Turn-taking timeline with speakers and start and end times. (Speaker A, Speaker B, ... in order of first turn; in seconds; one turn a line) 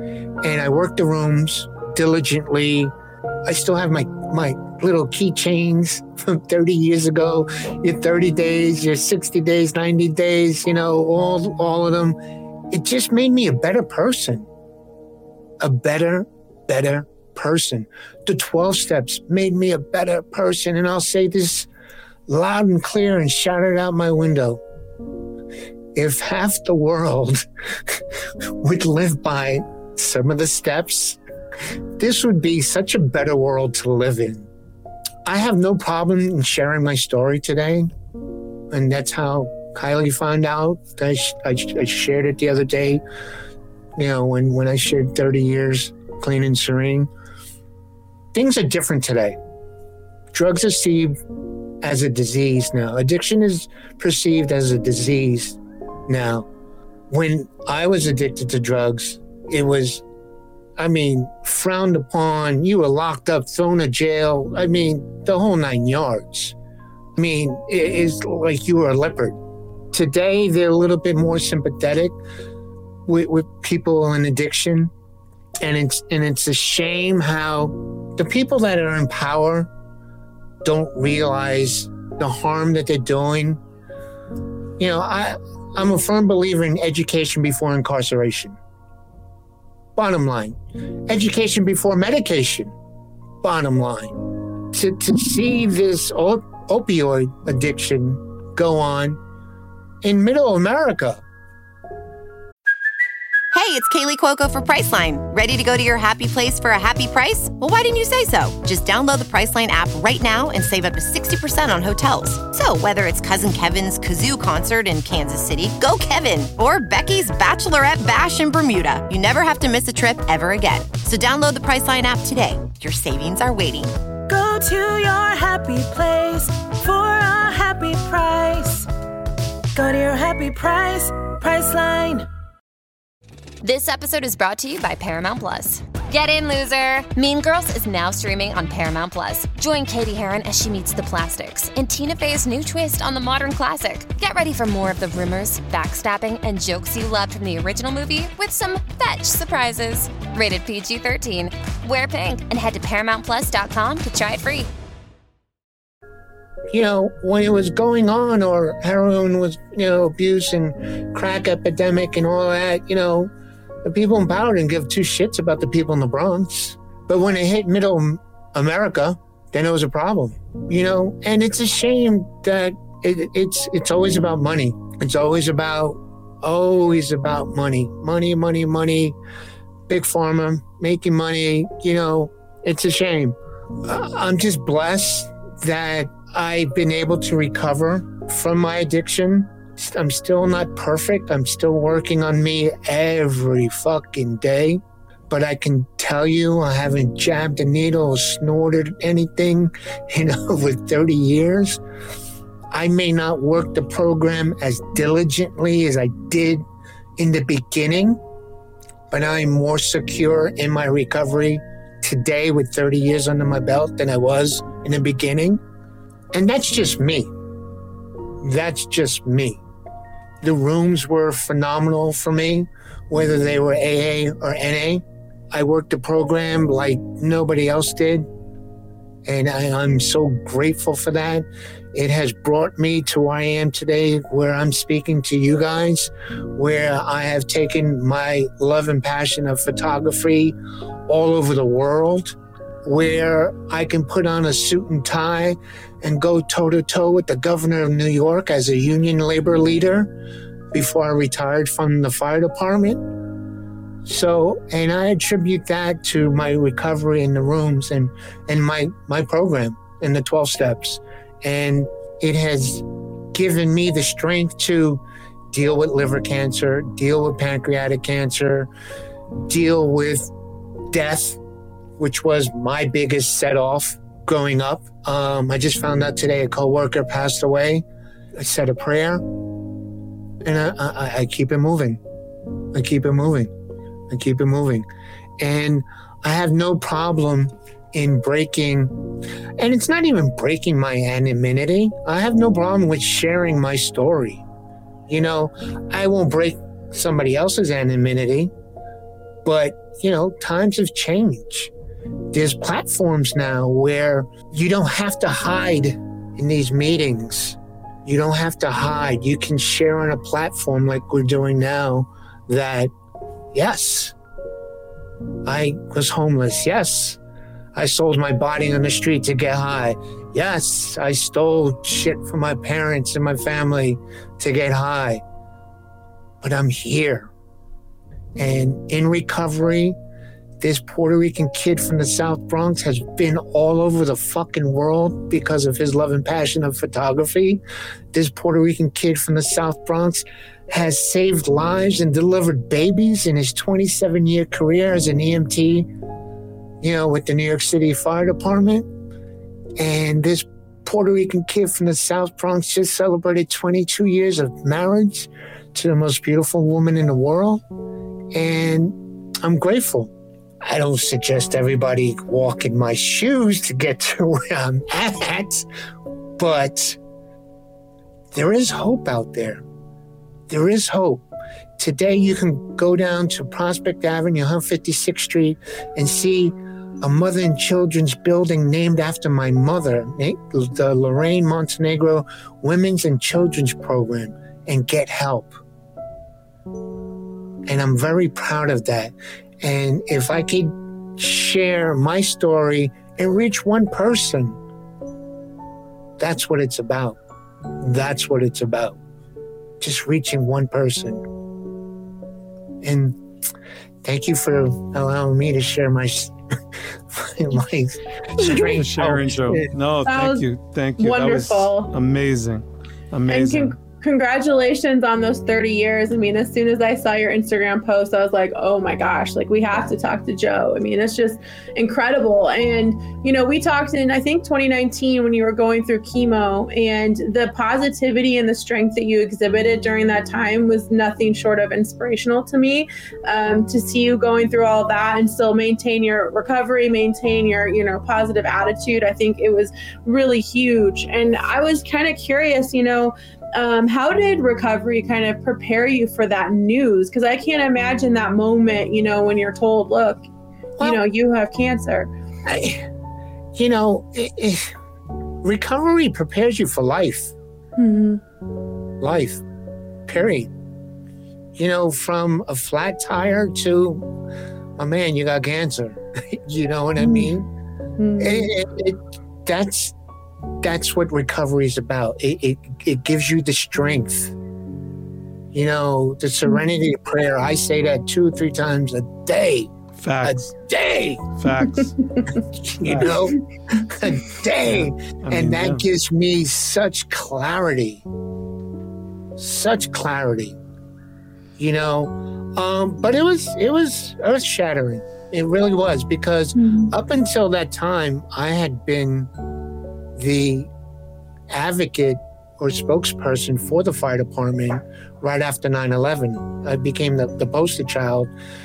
Speaker A: 0.4-2.9
Speaker A: 3.5-12.2
Speaker A: 12.7-14.5
Speaker A: 15.6-21.7
Speaker A: 22.3-24.6
Speaker A: 25.9-28.0
Speaker A: 28.6-31.2
Speaker A: 32.0-34.5
Speaker A: 35.2-37.9
Speaker A: 38.7-43.0
Speaker A: 44.0-47.1
Speaker A: 48.3-49.4
Speaker A: 50.3-51.2
Speaker A: 51.8-56.5
Speaker A: 57.1-60.0
Speaker A: 60.8-66.6
Speaker A: 67.2-69.4
Speaker A: 69.9-72.2
Speaker A: 73.1-74.9
Speaker A: 75.6-79.7
Speaker A: 80.6-83.6
Speaker A: 84.8-88.6
Speaker A: 90.0-92.7
Speaker A: 93.4-94.2
Speaker A: 94.7-99.2
Speaker A: 100.0-101.2
Speaker B: 103.5-123.9
Speaker C: 124.3-128.9
Speaker C: 129.8-132.3
Speaker D: 133.6-154.7
Speaker A: 156.7-163.3
Speaker A: 163.8-179.2
Speaker A: 179.9-201.8
Speaker A: 202.7-206.7
Speaker A: 207.2-208.2
Speaker A: 209.1-215.6
Speaker A: 216.3-217.3
Speaker A: 218.4-219.6
Speaker A: 220.4-228.3
Speaker A: 229.3-240.6
Speaker A: 241.1-250.1
Speaker A: 250.7-253.0
Speaker A: 254.1-268.7
Speaker A: 269.5-270.3
Speaker A: 270.9-271.4
Speaker A: 272.0-277.9
Speaker A: 278.4-279.3
Speaker A: 280.4-282.0
Speaker A: 282.7-283.5
Speaker A: 284.1-284.9
Speaker A: 285.4-288.9
Speaker A: 289.6-294.4
Speaker A: 295.1-298.5
Speaker A: 299.4-301.7
Speaker A: 302.3-312.9
Speaker A: 313.5-314.1
Speaker A: 315.4-317.2
Speaker A: 317.8-325.2
Speaker A: 326.4-327.3
Speaker A: 328.4-330.0
Speaker A: 330.6-345.9
Speaker A: 346.8-348.9
Speaker A: 349.8-357.6
Speaker A: 358.3-360.1
Speaker A: 360.6-365.7
Speaker A: 366.4-367.0
Speaker A: 368.3-369.6
Speaker A: 370.5-371.3
Speaker A: 371.8-385.6
Speaker A: 387.7-394.6
Speaker A: 396.2-397.2
Speaker A: 397.8-399.0
Speaker A: 399.8-401.2
Speaker A: 402.8-403.2
Speaker A: 404.0-406.3
Speaker A: 407.1-409.7
Speaker E: 408.4-408.8
Speaker F: 408.7-413.8
Speaker E: 410.1-410.4
Speaker E: 411.0-411.9
Speaker E: 413.3-450.3
Speaker E: 450.8-452.1
Speaker A: 452.5-452.9
Speaker A: 453.6-454.8
Speaker A: 455.4-457.3
Speaker E: 457.8-458.2
Speaker A: 459.0-459.4
Speaker A: 460.1-460.5
Speaker A: 461.6-464.1
Speaker A: 464.8-467.5
Speaker E: 467.0-467.3
Speaker E: 468.0-468.5
Speaker A: 468.2-469.9
Speaker A: 470.6-474.3
Speaker A: 475.5-479.7
Speaker F: 480.0-480.4
Speaker A: 480.2-481.2
Speaker F: 481.4-482.0
Speaker E: 481.8-482.2
Speaker A: 482.7-488.1
Speaker F: 482.9-483.1
Speaker F: 484.7-485.8
Speaker A: 489.4-490.6
Speaker A: 491.6-499.3
Speaker E: 496.6-496.9
Speaker A: 500.1-500.7
Speaker A: 501.5-508.3